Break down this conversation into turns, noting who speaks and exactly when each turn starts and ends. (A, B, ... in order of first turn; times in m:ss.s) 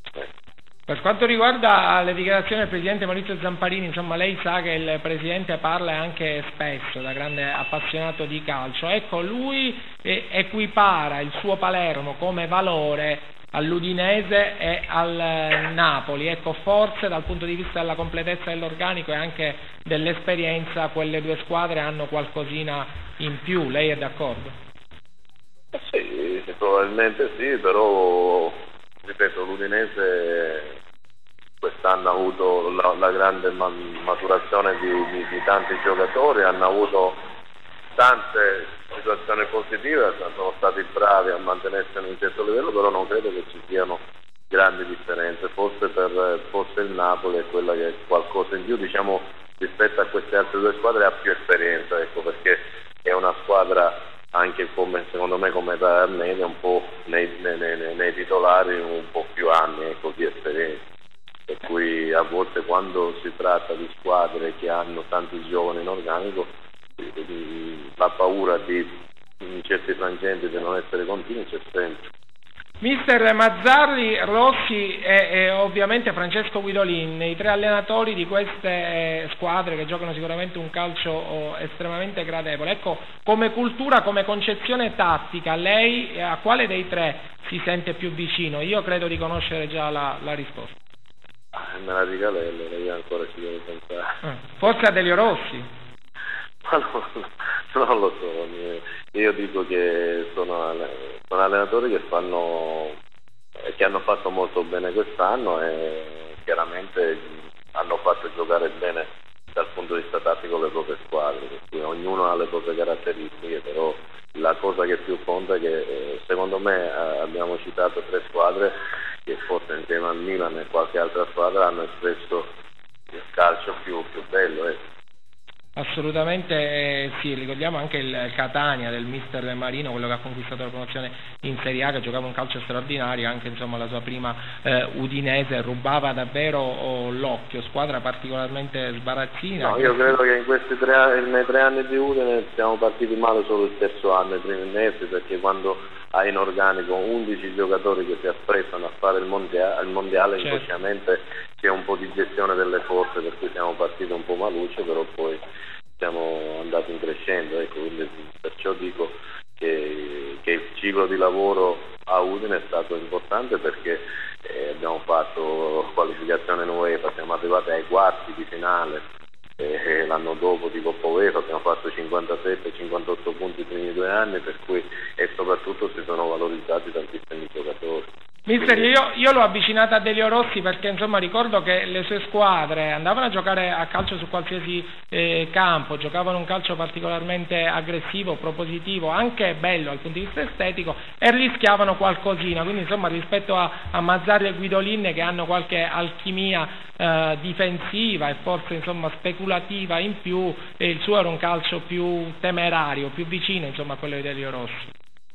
0:00.9-0:24.5 A
0:25.7-0:30.8 B
0:31.6-0:37.2 B
0:38.0-0:44.0 B
0:44.5-1:00.8 B
1:01.5-1:12.1 B
1:12.8-1:30.8 A
1:31.5-1:34.1 B
1:34.2-1:35.7 A
1:36.6-1:43.0 B
1:43.7-1:58.7 B
1:59.3-2:02.5 B
2:03.1-2:04.8 B
2:05.8-2:20.2 A
2:19.6-2:35.4 B
2:36.0-2:49.0 B
2:49.6-2:58.0 B
2:58.5-3:24.9 A
2:58.6-2:58.9 B